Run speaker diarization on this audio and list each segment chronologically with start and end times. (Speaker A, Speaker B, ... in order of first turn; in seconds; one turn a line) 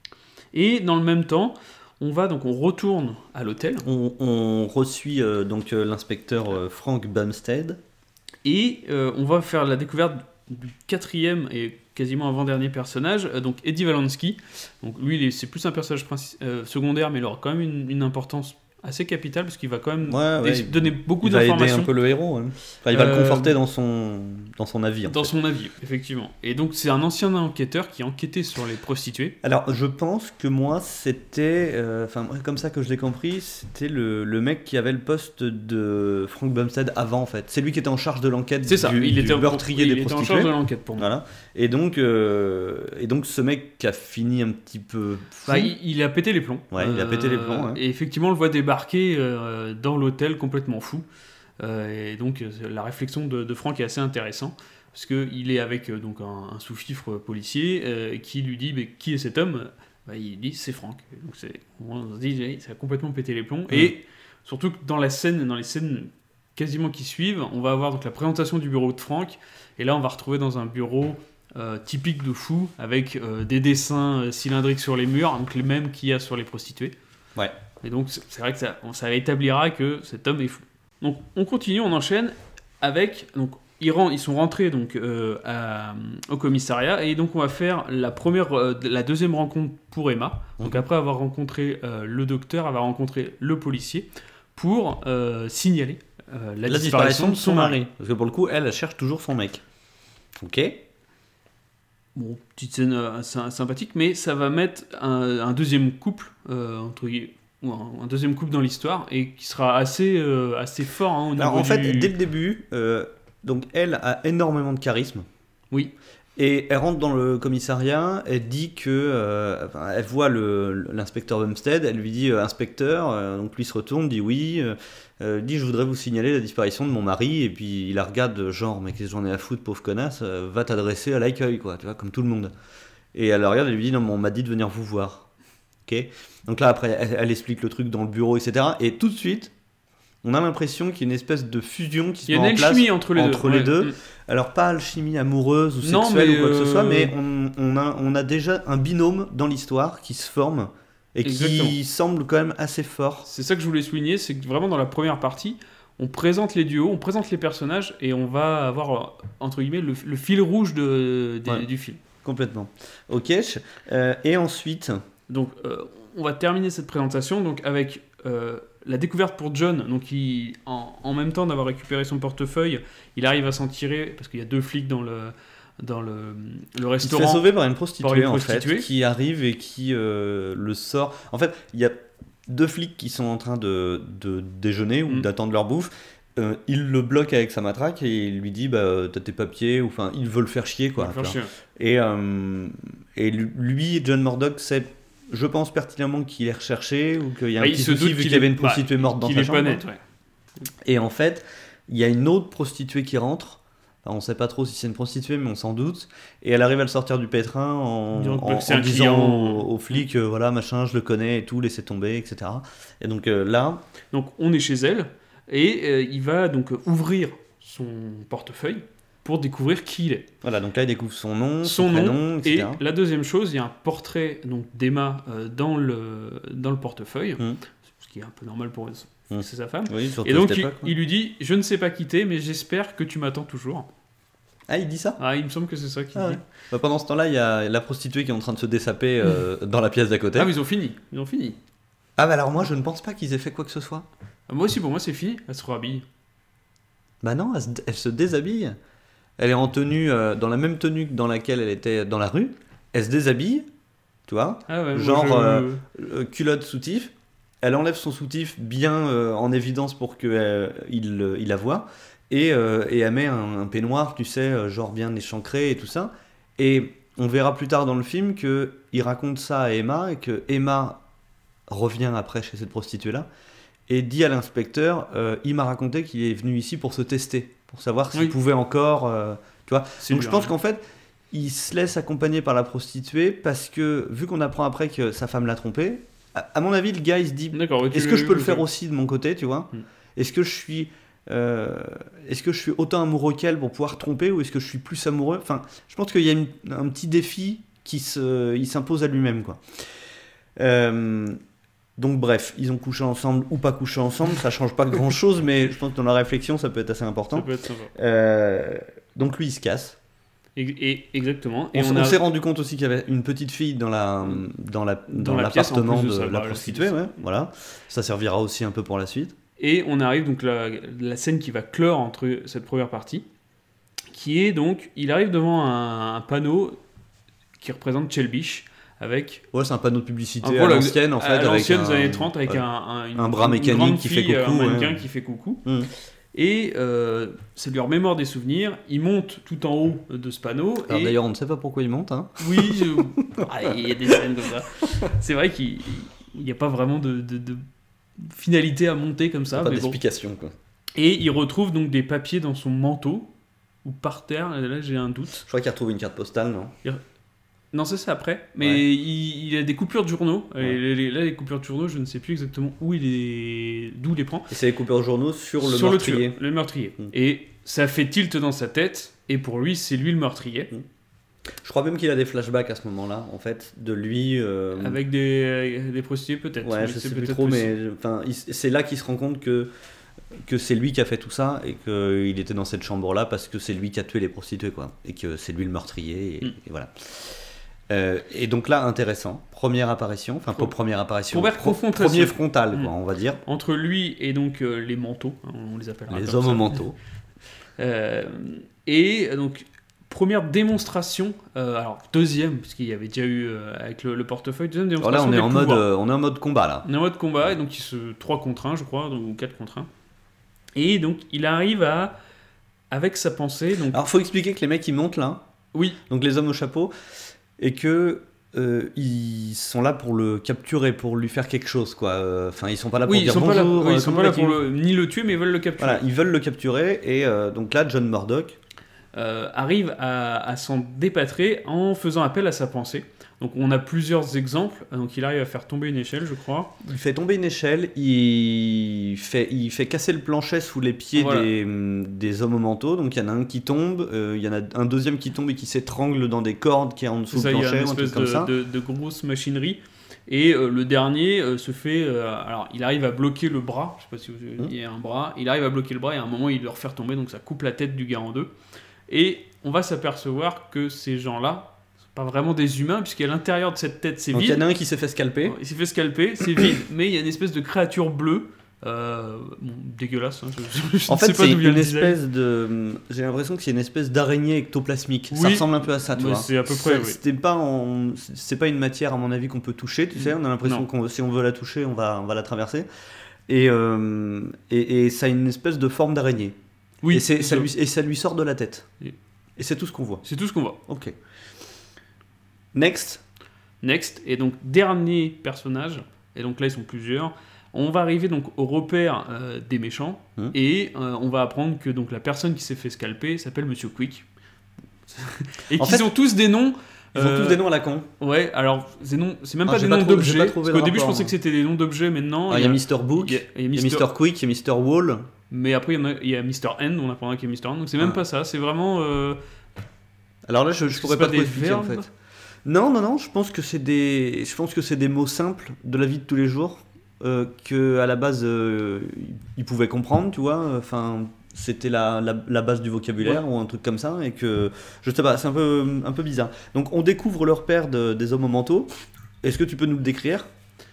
Speaker A: 0.5-3.9
Speaker B: 3.8-7.8
Speaker A: 8.4-21.9
Speaker B: 20.0-25.3
Speaker A: 22.9-23.6
Speaker A: 25.0-29.4
Speaker B: 29.4-45.7
Speaker A: 38.6-41.1
Speaker A: 45.5-51.0
Speaker B: 46.7-47.8
Speaker A: 51.6-76.9
Speaker A: 77.8-97.8
Speaker B: 96.7-99.6
Speaker B: 100.4-100.8
Speaker A: 102.1-112.1
Speaker B: 111.4-115.2
Speaker B: 116.4-132.5
Speaker B: 133.1-135.3
Speaker B: 135.8-139.5
Speaker B: 140.2-153.3
Speaker A: 142.3-143.9
Speaker A: 145.8-147.1
Speaker A: 151.2-151.8
Speaker A: 153.2-162.0
Speaker B: 162.2-165.0
Speaker A: 165.3-178.9
Speaker B: 177.0-199.8
Speaker A: 191.0-191.5
Speaker A: 197.6-200.0
Speaker B: 200.8-213.8
Speaker A: 208.1-210.0
Speaker A: 214.1-220.3
Speaker B: 220.4-222.8
Speaker A: 221.6-227.4
Speaker A: 228.0-233.9
Speaker B: 229.3-230.9
Speaker B: 234.7-235.2
Speaker A: 235.2-236.4
Speaker B: 236.1-240.5
Speaker A: 240.3-241.6
Speaker B: 242.2-244.1
Speaker A: 244.5-246.1
Speaker B: 247.2-248.8
Speaker B: 249.4-253.7
Speaker B: 254.3-271.0
Speaker A: 254.7-255.8
Speaker B: 271.7-273.3
Speaker B: 273.9-300.0
Speaker A: 280.0-280.5
Speaker A: 287.5-288.6
Speaker B: 300.6-301.4
Speaker B: 302.0-309.9
Speaker A: 307.3-307.9
Speaker A: 310.6-312.2
Speaker B: 311.7-319.3
Speaker A: 315.1-317.1
Speaker A: 319.6-323.2
Speaker A: 324.1-326.8
Speaker A: 327.6-329.4
Speaker B: 329.5-332.6
Speaker A: 330.4-335.6
Speaker B: 333.1-335.0
Speaker B: 335.6-335.9
Speaker A: 336.3-341.2
Speaker B: 340.9-343.9
Speaker A: 342.4-347.6
Speaker A: 348.2-350.0
Speaker B: 349.5-350.5
Speaker A: 350.9-353.3
Speaker A: 353.8-355.4
Speaker B: 355.4-356.7
Speaker A: 357.7-364.5
Speaker B: 364.5-366.4
Speaker A: 365.6-370.7
Speaker B: 371.6-375.0
Speaker A: 374.8-377.7
Speaker B: 376.6-379.7
Speaker B: 380.4-393.4
Speaker A: 391.3-392.9
Speaker A: 393.4-396.8
Speaker B: 396.1-397.0
Speaker A: 397.8-405.9
Speaker B: 405.0-406.9
Speaker A: 406.8-409.9
Speaker A: 410.7-412.1
Speaker A: 412.9-414.0
Speaker B: 413.9-415.4
Speaker A: 415.7-416.0
Speaker B: 416.1-416.9
Speaker B: 417.6-424.6
Speaker A: 423.1-426.0
Speaker B: 425.8-428.6
Speaker A: 429.1-436.8
Speaker B: 436.8-448.5
Speaker A: 441.1-441.5
Speaker A: 447.3-458.5
Speaker A: 459.1-464.6
Speaker B: 464.3-465.6
Speaker A: 465.4-472.2
Speaker B: 471.1-482.9
Speaker A: 475.3-477.2
Speaker A: 480.1-480.9
Speaker B: 483.5-486.6
Speaker A: 487.0-487.7
Speaker B: 487.1-488.9
Speaker B: 489.6-490.2
Speaker A: 490.2-490.8
Speaker B: 490.9-491.1
Speaker B: 492.7-493.2
Speaker A: 493.8-504.2
Speaker A: 505.1-507.6
Speaker B: 505.7-506.1
Speaker B: 507.1-508.1
Speaker A: 508.2-514.1
Speaker B: 509.6-511.3
Speaker B: 512.5-515.3
Speaker A: 515.5-519.4
Speaker B: 520.5-522.1
Speaker A: 520.9-522.1
Speaker B: 522.6-538.9
Speaker B: 539.4-540.5